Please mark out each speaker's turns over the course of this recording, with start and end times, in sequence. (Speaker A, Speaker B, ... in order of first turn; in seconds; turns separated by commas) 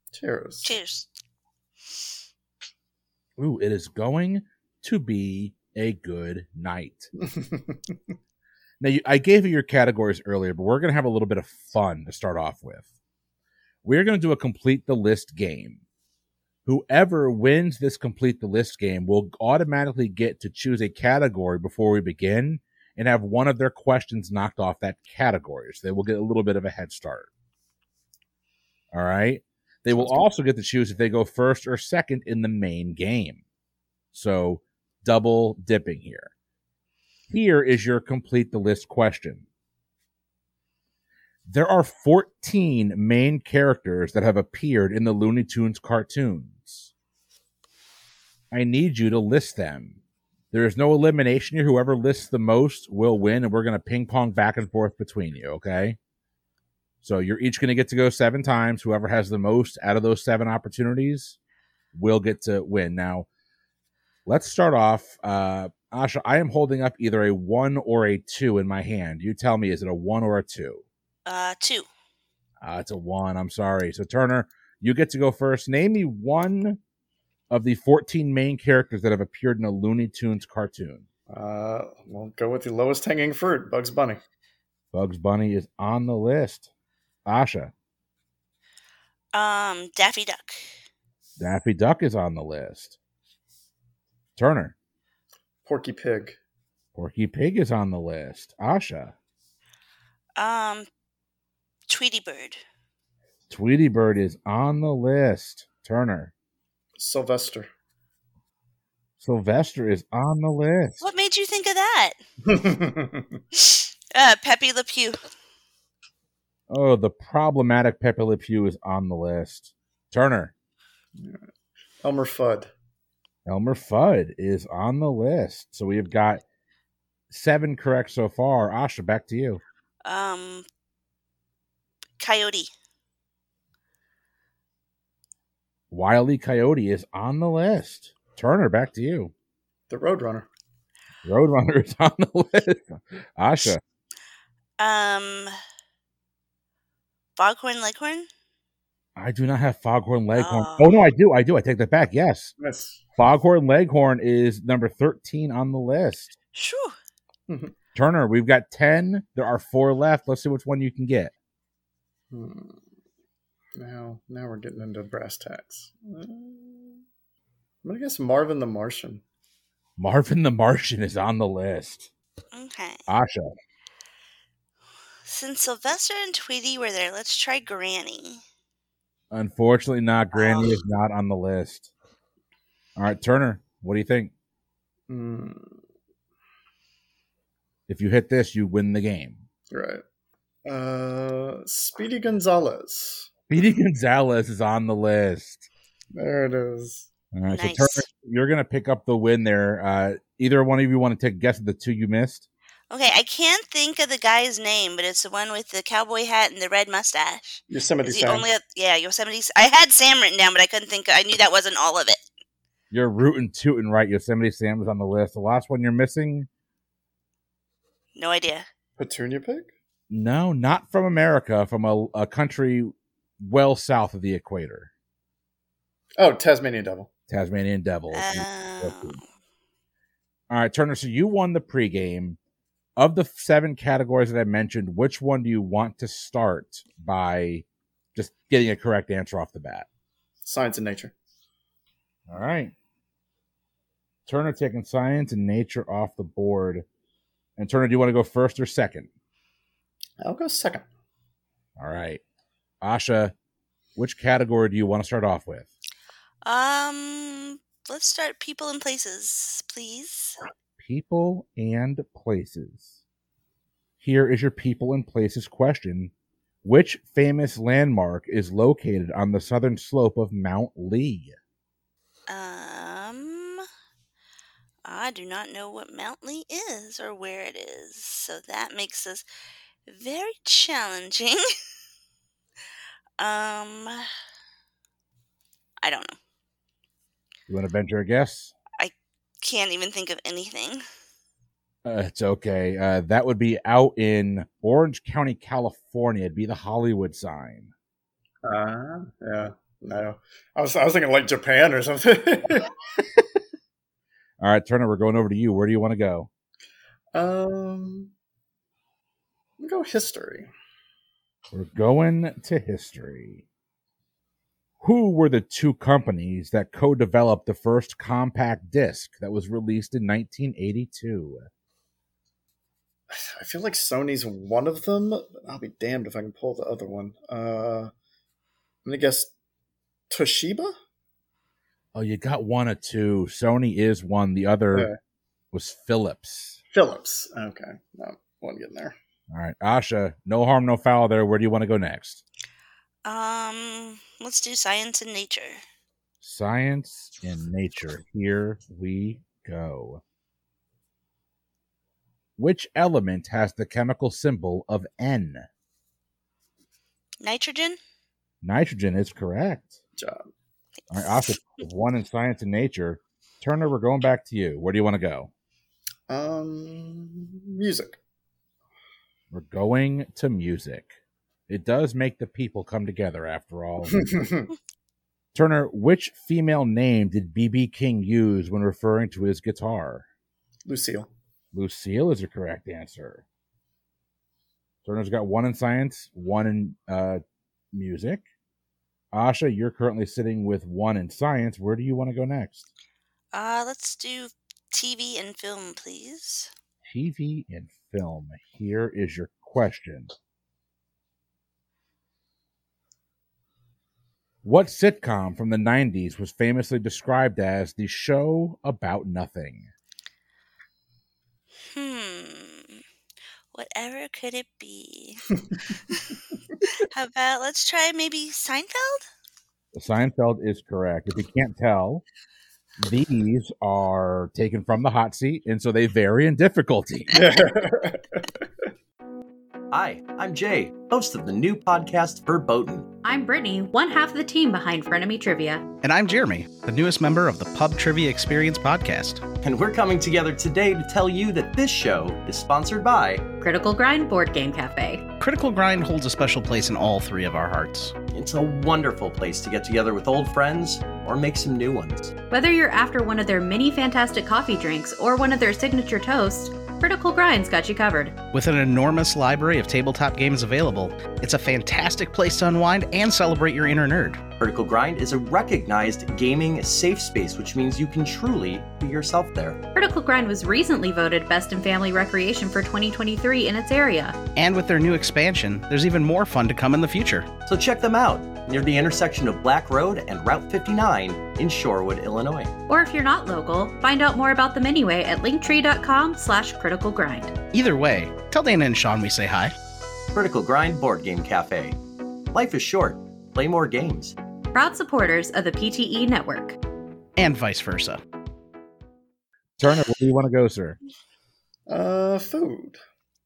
Speaker A: 0.1-0.7, Speaker B: 0.6-1.1, Speaker C: 3.4-7.1, Speaker A: 7.2-8.0, Speaker C: 8.8-12.9, Speaker C: 13.8-15.8, Speaker C: 16.7-27.3, Speaker C: 28.9-33.4, Speaker C: 34.1-36.3, Speaker C: 37.3-39.5, Speaker C: 41.5-46.9, Speaker C: 48.5-50.0, Speaker C: 50.5-56.0, Speaker C: 57.0-61.4, Speaker C: 61.9-63.3, Speaker C: 64.3-70.8, Speaker B: 71.3-71.9, Speaker C: 72.6-76.8, Speaker C: 77.5-81.1, Speaker A: 81.3-84.2, Speaker C: 84.9-86.7, Speaker C: 87.3-87.7, Speaker B: 89.3-90.6, Speaker C: 91.4-93.0, Speaker C: 94.4-94.8, Speaker A: 95.7-96.4, Speaker C: 97.0-99.1, Speaker B: 100.4-100.9, Speaker B: 101.9-102.6, Speaker C: 103.5-106.3, Speaker A: 107.0-107.7, Speaker C: 109.2-111.1, Speaker B: 111.0-112.2, Speaker A: 112.5-113.4, Speaker B: 113.6-115.2, Speaker C: 116.7-120.5, Speaker A: 122.0-122.7, Speaker C: 123.5-126.4, Speaker C: 127.3-129.6, Speaker B: 130.1-130.7, Speaker B: 132.2-132.7, Speaker C: 135.9-139.3, Speaker A: 139.9-140.5, Speaker C: 141.2-143.8, Speaker B: 144.8-145.6, Speaker B: 147.4-148.3, Speaker C: 149.2-152.5, Speaker B: 150.4-151.0, Speaker A: 152.6-153.0, Speaker C: 153.2-156.3, Speaker B: 156.6-157.0, Speaker A: 157.5-157.7, Speaker C: 157.9-161.3, Speaker A: 162.3-162.8, Speaker A: 163.8-167.0, Speaker A: 167.8-169.2, Speaker C: 170.0-172.1, Speaker B: 172.5-173.0, Speaker C: 173.1-173.5, Speaker B: 175.3-178.4, Speaker C: 179.3-181.9, Speaker B: 180.4-180.8, Speaker C: 183.0-184.3, Speaker A: 185.1-185.8, Speaker C: 187.9-189.4, Speaker A: 189.7-190.0, Speaker A: 190.7-193.3, Speaker C: 193.5-195.7, Speaker A: 196.2-197.1, Speaker C: 197.3-202.5, Speaker B: 197.5-198.1, Speaker B: 202.9-212.2, Speaker A: 207.7-208.5, Speaker C: 212.9-216.5, Speaker B: 218.2-218.7, Speaker A: 219.0-219.7, Speaker C: 220.1-224.9, Speaker A: 226.2-227.1, Speaker C: 227.3-229.2, Speaker B: 228.1-229.2, Speaker C: 230.5-232.4, Speaker C: 233.0-239.9, Speaker A: 240.4-241.1, Speaker C: 242.3-242.7, Speaker C: 244.3-246.8, Speaker C: 247.6-249.1, Speaker A: 250.2-250.9, Speaker C: 251.8-252.2, Speaker C: 252.8-253.3, Speaker C: 254.0-255.7, Speaker B: 256.4-260.4, Speaker C: 260.8-262.9, Speaker C: 264.0-266.1, Speaker C: 266.6-271.4, Speaker B: 272.3-273.7, Speaker B: 274.9-279.2, Speaker B: 279.9-281.5, Speaker B: 283.2-284.1, Speaker B: 285.8-286.2, Speaker C: 287.5-288.5, Speaker B: 288.8-290.8, Speaker C: 291.9-297.7, Speaker A: 298.4-302.7, Speaker C: 304.4-306.3, Speaker A: 307.1-308.1, Speaker A: 309.6-310.5, Speaker C: 311.5-313.4, Speaker C: 314.8-321.5, Speaker A: 323.1-327.9, Speaker A: 328.9-329.3, Speaker A: 330.1-330.7, Speaker C: 331.9-334.9, Speaker C: 335.5-336.6, Speaker A: 336.7-339.0, Speaker C: 339.3-342.2, Speaker B: 343.1-345.6, Speaker C: 346.2-350.0, Speaker C: 352.4-355.5, Speaker B: 357.2-357.8, Speaker C: 358.4-359.8, Speaker A: 360.0-360.3, Speaker C: 360.9-365.3, Speaker B: 360.9-361.3, Speaker A: 366.1-368.0, Speaker C: 369.3-370.9, Speaker C: 371.5-374.3, Speaker A: 374.0-374.5, Speaker C: 375.3-380.1, Speaker A: 380.7-381.1, Speaker C: 381.5-383.2, Speaker C: 384.9-387.2, Speaker C: 387.7-388.2, Speaker C: 389.1-392.7, Speaker B: 393.3-396.5, Speaker C: 396.8-400.1, Speaker C: 404.4-409.7, Speaker B: 411.7-412.8, Speaker B: 413.5-415.3, Speaker B: 416.6-419.1, Speaker C: 419.7-422.0, Speaker C: 422.8-427.2, Speaker A: 427.1-428.2, Speaker D: 429.7-432.9, Speaker E: 433.0-435.6, Speaker F: 435.8-439.2, Speaker D: 439.4-443.2, Speaker E: 443.4-445.1, Speaker F: 445.2-447.9, Speaker D: 448.1-452.1, Speaker E: 452.3-458.2, Speaker F: 458.3-464.2, Speaker D: 464.4-469.6, Speaker E: 469.8-474.2, Speaker F: 474.4-477.3, Speaker D: 477.5-482.5, Speaker E: 482.7-487.4, Speaker F: 487.5-489.5, Speaker D: 490.1-491.8, Speaker D: 492.3-494.2, Speaker E: 494.5-496.6, Speaker F: 497.2-498.0, Speaker C: 499.6-500.8, Speaker A: 501.7-502.8